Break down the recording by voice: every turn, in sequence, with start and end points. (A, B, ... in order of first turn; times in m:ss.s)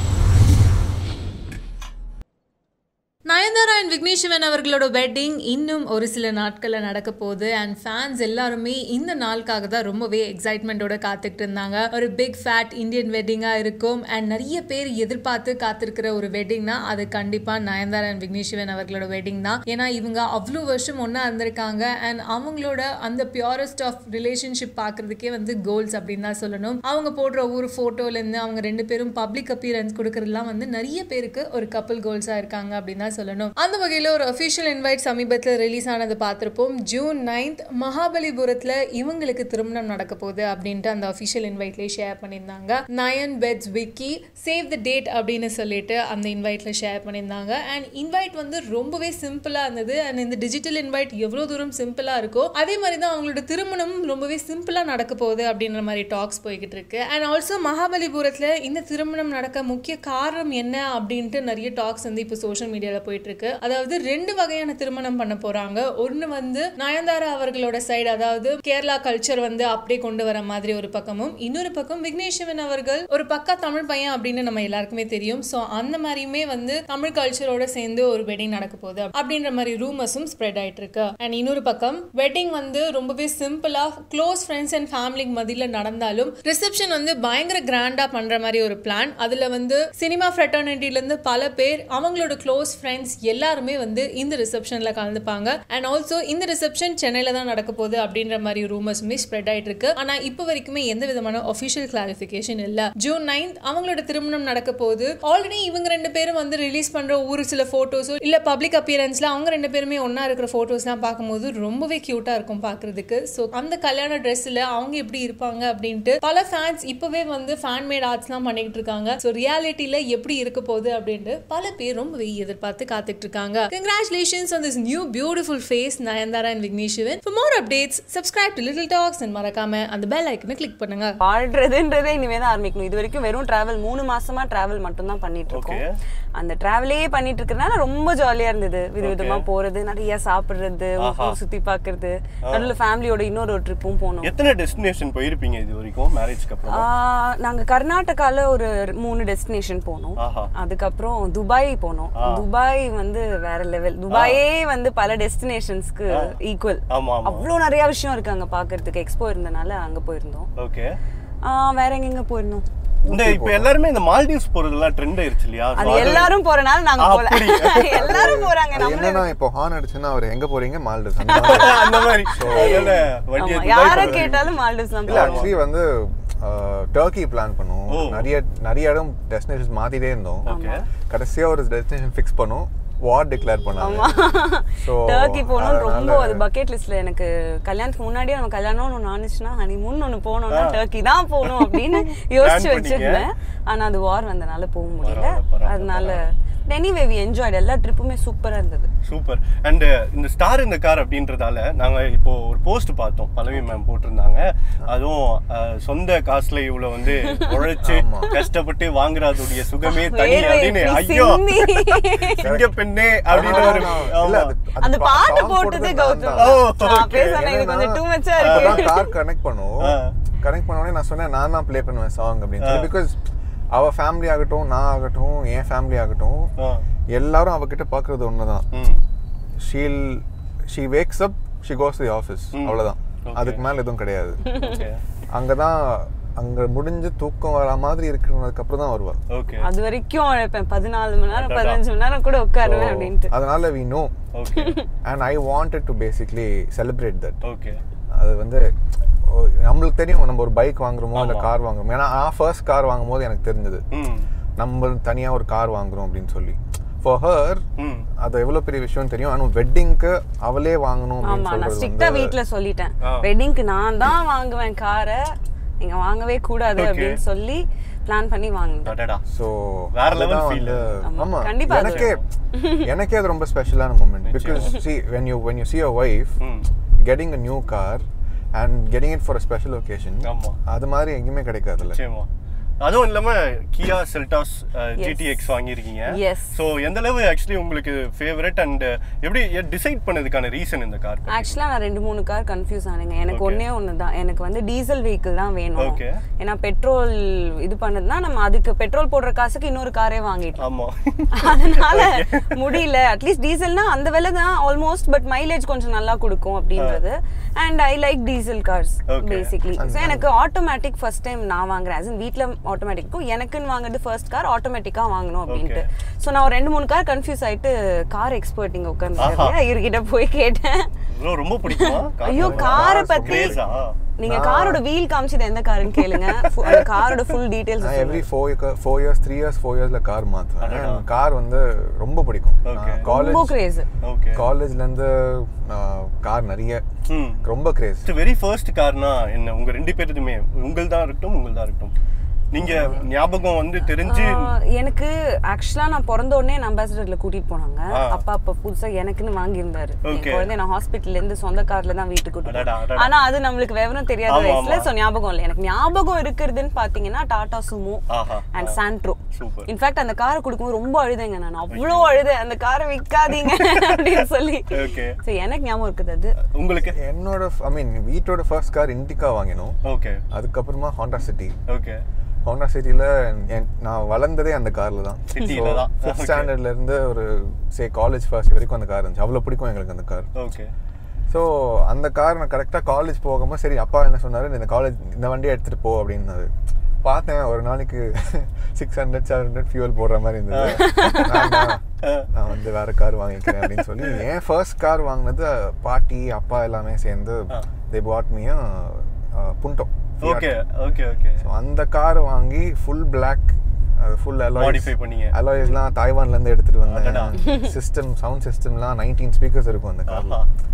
0:03.3-2:11.2 A
2:11.2-2:15.8 B
2:15.5-2:15.9 C
2:16.4-2:24.3 B
2:19.0-2:19.4 C
2:21.0-2:21.4 C
2:24.2-2:26.9 C
2:26.6-2:40.5 B
2:30.2-2:30.5 C
2:32.2-2:32.4 C
2:34.1-2:34.4 C
2:36.9-2:37.5 C
2:40.6-2:41.0 C
2:41.4-2:42.6 B
2:43.0-2:43.7 D
2:43.1-2:46.4 C
2:45.8-2:49.3 B
2:47.0-2:48.1 C
2:47.9-2:53.0 D
2:51.3-2:55.6 B
2:51.4-2:54.5 C
2:53.8-2:54.3 D
2:55.1-3:00.5 D
2:55.1-2:55.5 C
2:57.9-2:58.3 C
3:00.4-3:00.9 C
3:00.5-3:00.8 B
3:01.1-3:04.1 D
3:03.8-3:18.9 B
3:04.7-3:06.4 D
3:10.5-3:10.8 C
3:11.4-3:11.9 C
3:12.4-3:13.3 C
3:15.0-3:16.2 C
3:19.0-3:34.5 C
3:27.3-3:27.6 B
3:27.8-3:28.3 D
3:29.8-3:32.5 B
3:32.4-3:32.7 D
3:33.3-3:36.6 D
3:33.4-3:34.0 B
3:34.8-3:39.1 B
3:36.4-3:37.4 C
3:37.2-3:43.2 D
3:38.4-3:38.9 C
3:39.8-3:40.1 C
3:42.6-3:42.9 C
3:43.7-3:46.5 D
3:47.1-3:48.7 D
3:48.7-3:49.0 C
3:49.6-3:54.4 D
3:52.5-3:53.6 C
3:54.4-3:54.8 B
3:54.6-3:55.0 C
3:55.3-3:59.2 D
3:59.3-3:59.7 C
3:59.6-4:03.3 B
4:01.3-4:01.8 C
4:02.7-4:04.1 D
4:02.8-4:03.1 C
4:04.3-4:04.8 C
4:04.6-4:04.9 B
4:05.0-4:07.4 D
4:07.4-4:07.8 C
4:08.1-4:08.7 D
4:09.3-4:13.8 D
4:11.2-4:11.5 C
4:13.9-4:14.3 C
4:14.6-4:17.6 D
4:17.8-4:18.1 C
4:18.2-4:22.4 D
4:21.2-4:25.2 B
4:23.0-4:23.3 C
4:25.8-4:29.0 B
4:26.8-4:27.2 C
4:28.8-4:29.2 C
4:29.3-4:32.2 D
4:29.9-4:31.0 C
4:31.1-4:32.9 B
4:31.7-4:32.2 C
4:32.8-4:36.4 D
4:34.3-4:34.8 C
4:36.4-4:36.7 C
4:37.0-4:42.0 D
4:40.2-4:40.6 C
4:41.9-4:42.3 C
4:42.8-4:51.5 C
4:45.0-4:45.5 B
4:46.1-4:46.6 B
4:51.3-5:00.6 B
4:53.3-4:53.6 C
4:55.8-4:56.1 C
5:00.6-5:02.8 C
5:01.3-5:20.9 B
5:06.8-5:07.0 C
5:09.1-5:09.5 C
5:09.8-5:10.3 D
5:15.5-5:15.8 C
5:19.2-5:19.6 C
5:19.2-5:19.5 D
5:21.1-5:24.0 C
5:21.7-5:23.6 B
5:22.3-5:23.6 D
5:24.2-5:28.3 B
5:24.2-5:24.8 D
5:27.8-5:33.6 D
5:30.6-5:31.1 C
5:32.6-5:33.1 C
5:33.0-5:33.9 B
5:34.0-5:34.4 C
5:34.4-5:36.8 D
5:37.1-5:37.4 C
5:37.4-5:38.1 D
5:38.0-5:41.9 C
5:42.5-5:44.4 C
5:42.6-5:43.0 B
5:44.0-6:06.4 B
5:47.9-5:48.2 C
5:50.1-5:50.5 C
5:52.4-5:53.2 C
5:54.3-5:54.9 C
5:58.1-5:58.8 C
5:59.4-5:59.7 C
6:01.7-6:02.3 C
6:04.7-6:05.2 C
6:06.5-6:07.0 C
6:06.9-6:09.8 D
6:09.8-6:10.2 C
6:10.3-6:11.6 D
6:11.7-6:12.0 C
6:12.4-6:20.3 D
6:15.3-6:16.5 C
6:20.4-6:20.7 C
6:21.3-6:26.5 D
6:27.0-6:40.6 D
6:30.5-6:31.5 C
6:30.9-6:31.7 B
6:33.6-6:34.2 C
6:40.2-6:41.4 C
6:41.4-6:50.4 D
6:44.6-6:45.3 C
6:46.8-6:47.4 C
6:47.4-6:47.7 B
6:50.1-6:50.5 C